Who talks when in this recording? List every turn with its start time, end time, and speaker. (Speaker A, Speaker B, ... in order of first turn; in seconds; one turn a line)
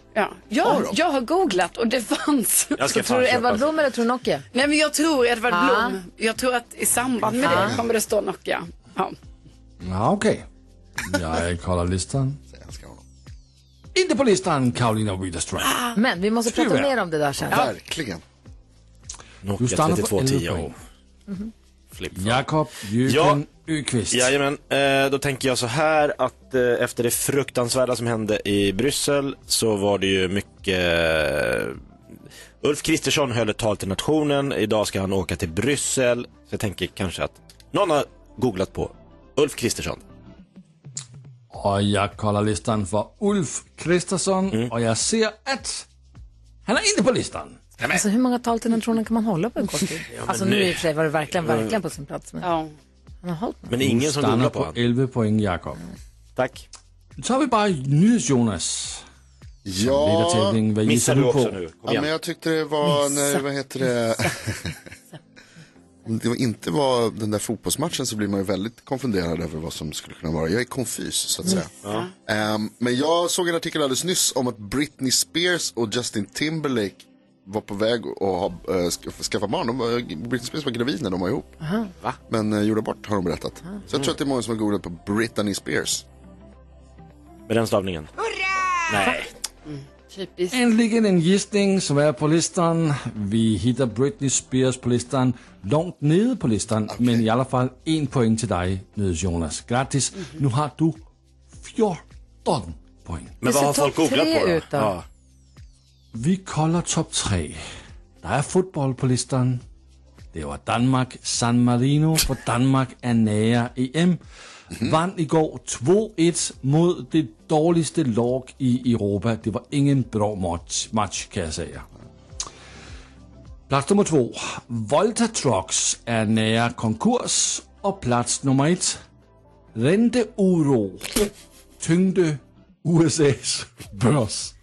Speaker A: 0.1-2.8
Speaker B: 0.6-1.0
Speaker C: 2.8-3.8
Speaker D: 2.9-4.4
Speaker A: 4.5-9.2
Speaker D: 5.5-6.0
Speaker D: 7.4-7.8
Speaker B: 7.5-7.8
Speaker E: 9.8-10.5
Speaker E: 11.1-12.4
Speaker B: 12.5-13.0
Speaker E: 13.9-15.8
Speaker A: 15.6-16.0
Speaker D: 16.0-17.6
Speaker E: 16.5-16.9
Speaker B: 17.5-18.2
Speaker C: 19.4-20.7
Speaker E: 19.6-20.8
Speaker C: 21.9-22.4
Speaker E: 22.1-24.3
Speaker C: 23.0-23.4
Speaker C: 24.1-31.8
Speaker C: 32.6-40.0
Speaker E: 41.5-45.9
Speaker E: 46.6-47.6
Speaker D: 47.9-52.5
Speaker C: 50.1-50.8
Speaker C: 51.4-51.8
Speaker A: 52.4-52.7
Speaker D: 53.2-53.7
Speaker C: 53.7-54.8
Speaker E: 53.8-55.8
Speaker C: 56.4-56.6
Speaker E: 57.2-59.0
Speaker B: 59.6-60.6
Speaker E: 59.8-61.6
Speaker C: 60.9-62.1
Speaker B: 61.9-64.8
Speaker B: 66.1-81.5
Speaker D: 81.6-81.9
Speaker B: 82.3-86.0
Speaker C: 87.5-88.1
Speaker C: 88.9-89.3
Speaker A: 89.7-90.5
Speaker E: 90.5-101.0
Speaker B: 96.9-97.3
Speaker E: 101.6-103.4
Speaker C: 103.4-105.0
Speaker D: 103.4-104.9
Speaker E: 106.1-107.6
Speaker E: 108.2-109.6
Speaker E: 110.3-114.2
Speaker E: 114.7-121.9
Speaker E: 123.7-129.0
Speaker E: 129.8-134.5